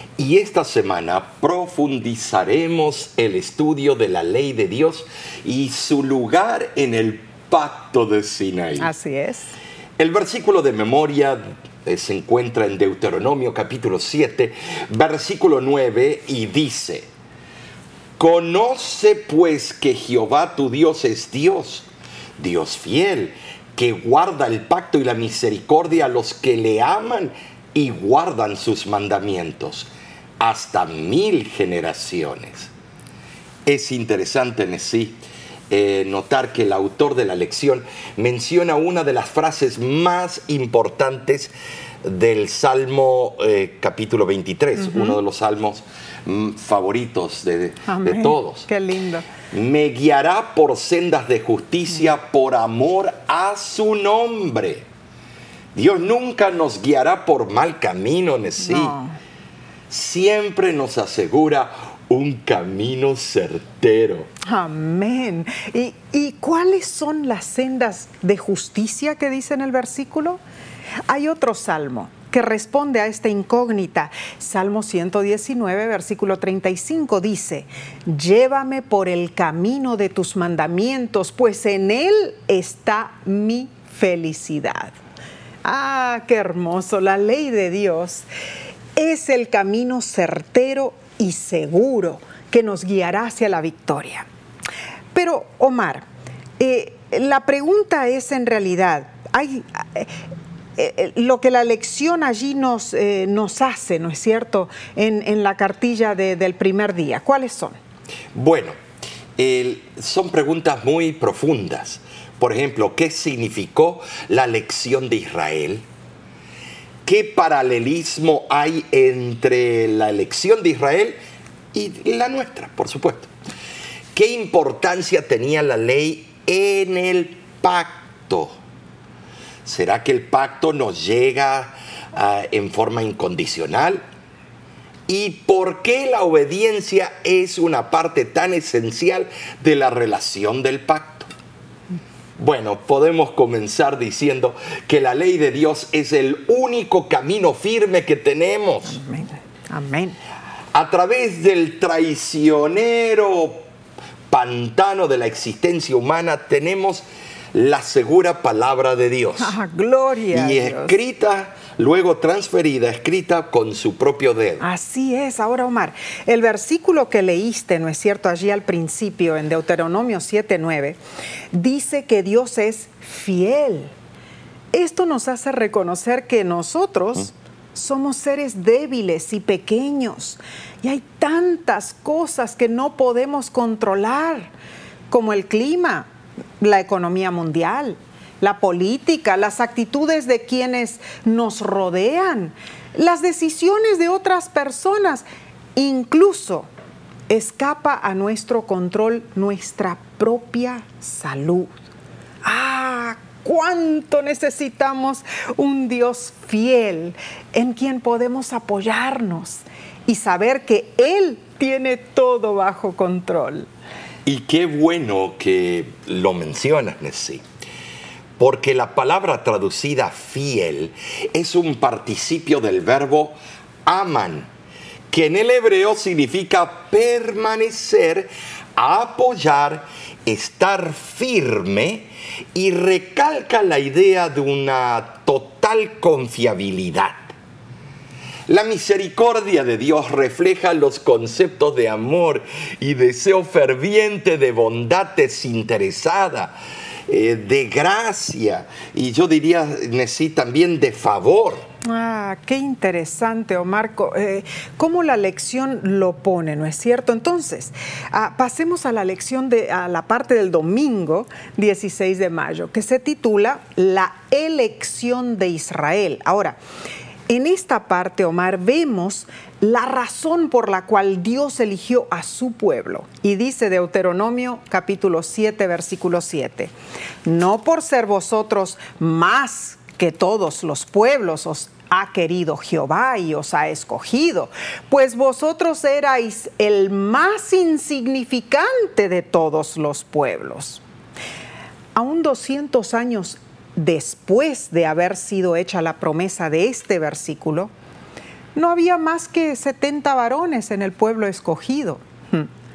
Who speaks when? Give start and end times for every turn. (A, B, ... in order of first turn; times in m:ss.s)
0:00.2-0:08.9 A
0:08.8-0:09.5 B
0:10.0-0:17.1 A
0:18.2-0:29.9 A
0:30.4-0:32.7 A
0:33.6-0:41.5 A
0:42.0-0:48.7 A
0:44.8-0:45.2 B
0:47.9-0:49.3 B
0:49.5-0:54.8 A
0:55.7-0:59.0 A
0:58.6-0:59.2 B
0:59.9-1:04.3 A
1:04.4-1:10.4 B
1:11.1-1:24.9 B
1:25.6-1:28.2 B
1:29.0-1:34.3 B
1:35.1-1:36.0 B
1:36.6-1:40.1 B
1:40.8-1:47.8 B
1:48.3-1:48.7 A
1:49.4-1:55.8 A
1:57.0-2:01.2 A
2:01.7-2:03.3 A
2:04.1-2:08.6 A
2:09.6-2:14.0 A
2:15.1-2:21.3 A
2:22.4-2:29.0 A
2:28.9-2:30.2 B
2:30.7-2:33.6 A
2:34.3-2:39.5 A
2:39.4-2:41.0 B
2:40.3-2:44.6 A
2:44.6-2:51.0 B
2:51.5-2:53.9 B
2:54.7-3:04.5 B
3:05.1-3:06.1 B
3:06.6-3:15.2 B
3:15.8-3:16.7 B
3:17.3-3:21.7 B
3:22.4-3:33.7 B
3:34.2-3:37.4 A
3:38.4-3:44.5 A
3:45.1-3:57.3 A
3:58.5-4:06.6 A
4:07.1-4:11.6 A
4:11.8-4:26.6 B
4:27.3-4:36.7 B
4:37.2-4:50.8 B
4:51.9-4:57.7 B
4:58.5-5:02.5 B